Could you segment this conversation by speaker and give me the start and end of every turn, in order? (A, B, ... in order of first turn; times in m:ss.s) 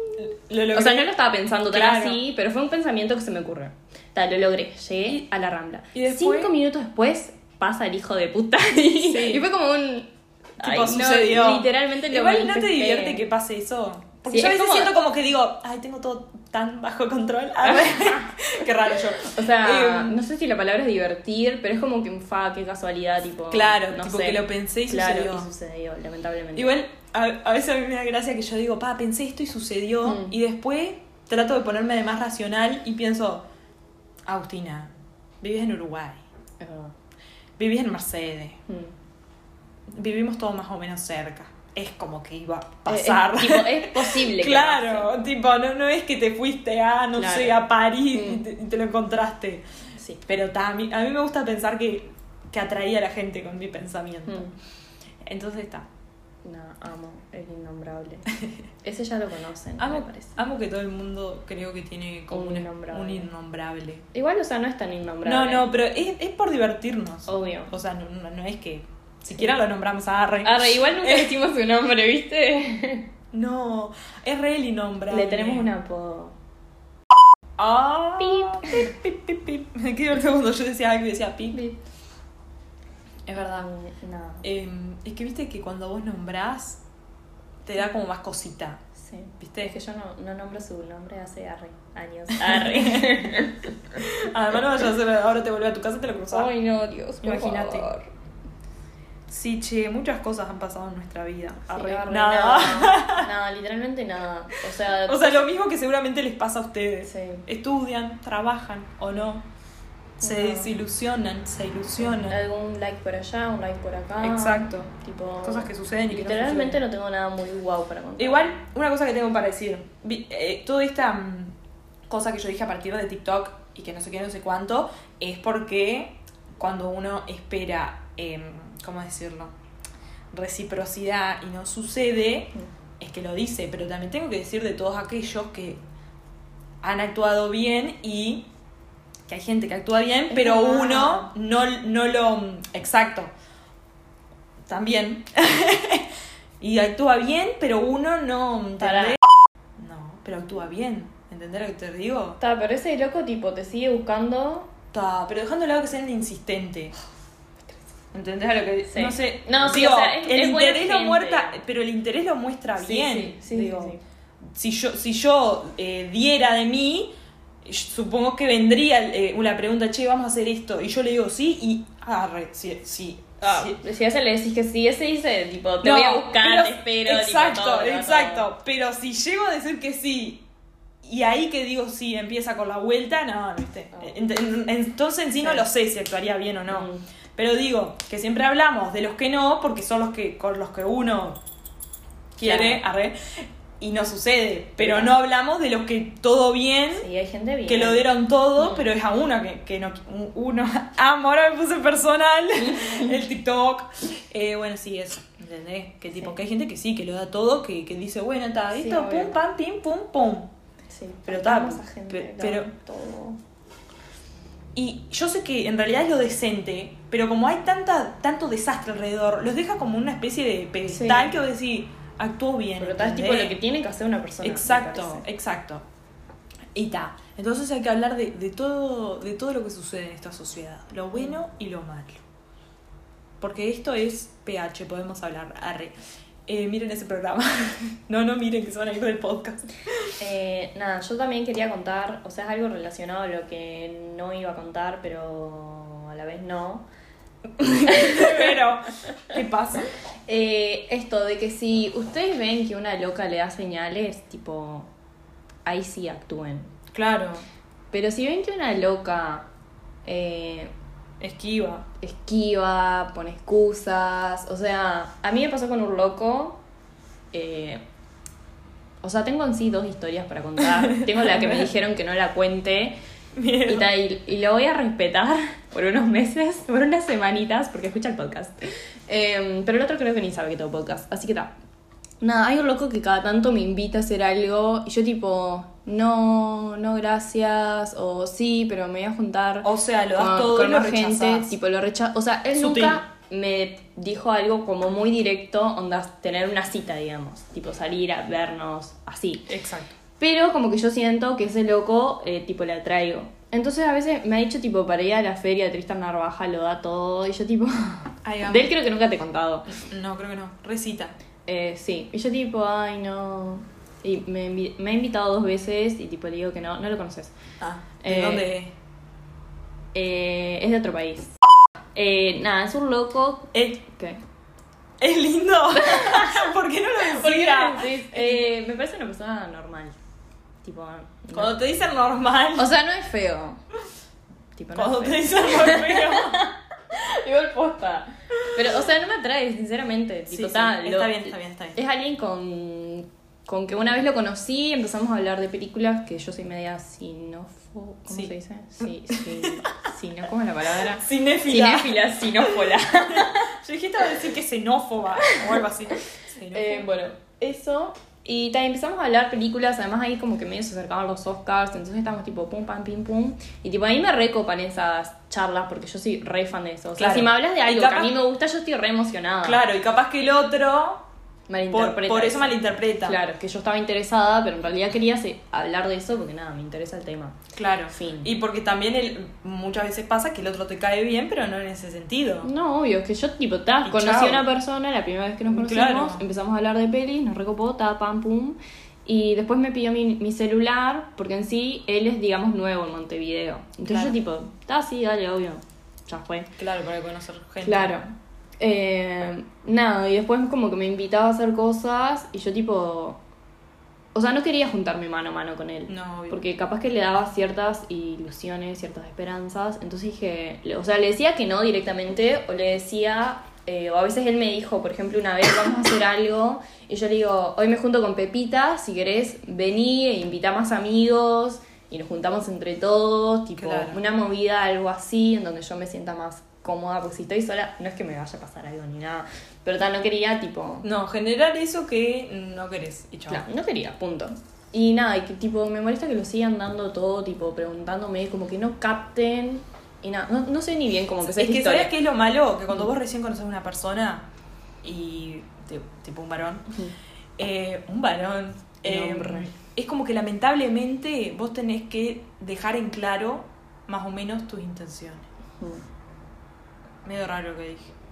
0:00.2-0:01.1 A
0:00.7-0:13.2 B
0:01.7-0:02.2 A
0:05.9-0:06.5 A
0:09.0-0:09.5 A
0:10.6-0:20.2 A
0:14.3-0:14.9 B
0:17.6-0:18.3 B
0:19.2-0:26.7 B
0:23.5-0:25.5 A
0:26.6-0:33.4 A
0:30.0-0:30.4 B
0:34.3-0:36.2 A
0:36.6-0:36.9 B
0:37.6-0:38.6 A
0:38.7-0:38.9 B
0:39.9-0:49.6 A
0:42.9-0:45.1 B
0:47.2-0:47.6 B
0:48.1-0:48.4 B
0:50.2-0:54.5 A
0:54.3-0:54.5 B
0:55.2-0:55.9 A
0:56.4-0:58.3 B
0:58.8-1:00.4 B
0:59.8-1:04.1 A
1:02.3-1:03.3 B
1:04.1-1:05.7 B
1:05.2-1:11.3 A
1:07.3-1:07.7 B
1:10.4-1:13.1 B
1:13.3-1:15.7 A
1:15.1-1:16.4 B
1:17.6-1:21.6 A
1:18.2-1:18.9 B
1:21.5-1:21.8 B
1:23.3-1:23.7 A
1:23.4-1:24.4 B
1:24.4-1:26.8 A
1:27.6-1:28.8 A
1:29.0-1:33.7 B
1:29.4-1:29.7 A
1:32.4-1:36.5 A
1:36.3-1:38.1 B
1:37.2-1:37.9 A
1:39.3-1:43.3 A
1:41.7-1:45.5 B
1:45.1-1:49.4 A
1:47.0-1:47.4 B
1:50.2-1:50.7 B
1:50.2-1:52.4 A
1:52.0-1:58.6 B
1:54.2-1:54.9 A
1:55.4-1:56.8 A
1:58.2-2:01.5 A
2:02.1-2:09.5 A
2:10.3-2:15.8 A
2:16.8-2:18.5 A
2:19.3-2:23.3 A
2:20.3-2:21.3 B
2:24.7-2:26.0 A
2:26.6-2:29.2 A
2:28.8-2:29.2 B
2:29.8-2:32.4 A
2:32.4-2:34.7 B
2:34.9-2:37.0 A
2:38.1-2:44.0 A
2:38.9-2:41.6 B
2:42.8-2:44.0 B
2:44.5-2:47.1 A
2:47.6-2:53.8 A
2:53.4-2:58.5 B
2:55.8-3:00.4 A
3:01.0-3:11.4 A
3:05.4-3:05.7 B
3:06.7-3:07.0 B
3:12.4-3:17.1 A
3:12.4-3:12.8 B
3:14.8-3:15.1 B
3:16.9-3:18.0 B
3:17.7-3:30.5 A
3:18.6-3:18.9 B
3:22.6-3:23.1 B
3:28.7-3:29.4 B
3:30.9-3:33.4 B
3:31.3-3:32.7 A
3:34.8-3:43.6 A
3:40.9-3:41.3 B
3:42.8-3:45.2 B
3:44.4-3:45.8 A
3:46.7-3:52.2 A
3:53.4-3:56.0 A
3:56.5-4:00.1 A
4:00.2-4:06.9 B
4:07.6-4:09.9 A
4:07.9-4:08.5 B
4:10.3-4:14.9 B
4:15.7-4:16.7 B
4:16.9-4:17.5 A
4:17.9-4:19.5 B
4:20.0-4:20.7 B
4:21.2-4:21.9 A
4:22.0-4:26.6 B
4:27.3-4:27.8 B
4:29.0-4:33.0 B
4:30.7-4:31.7 A
4:33.4-4:33.9 A
4:33.7-4:38.6 B
4:39.1-4:41.5 B
4:42.2-4:59.5 B
4:49.6-4:51.6 A
4:52.6-4:53.0 A
4:59.5-4:59.9 A
5:00.2-5:09.7 B
5:08.2-5:08.7 A
5:09.7-5:11.2 A
5:11.5-5:17.4 B
5:17.6-5:18.7 A
5:18.0-5:18.5 B
5:19.9-5:21.3 B
5:22.0-5:24.2 B
5:23.5-5:23.8 A
5:25.0-5:28.4 A
5:25.8-5:26.5 B
5:27.1-5:30.0 B
5:30.6-5:31.6 B
5:31.3-5:32.7 A
5:32.6-5:33.6 B
5:34.6-5:53.5 B
5:34.8-5:36.4 A
5:40.3-5:41.8 A
5:48.8-5:49.7 A
5:51.0-5:56.9 A
5:56.5-6:09.6 B
6:07.0-6:08.2 A
6:09.4-6:11.0 A
6:11.5-6:17.4 B
6:11.7-6:13.2 A
6:17.6-6:22.5 A
6:17.9-6:18.3 B
6:22.4-6:36.5 B
6:23.8-6:24.4 A
6:25.5-6:26.2 A
6:33.9-6:34.2 A
6:36.6-6:38.0 A
6:37.6-6:43.2 B
6:44.1-7:10.9 B
6:45.9-6:46.4 A
7:03.6-7:04.0 A
7:10.8-7:13.4 A
7:13.3-7:21.9 B
7:21.2-7:24.3 A
7:24.8-7:26.7 A
7:27.4-7:35.3 A
7:28.8-7:29.5 B
7:37.0-7:37.9 A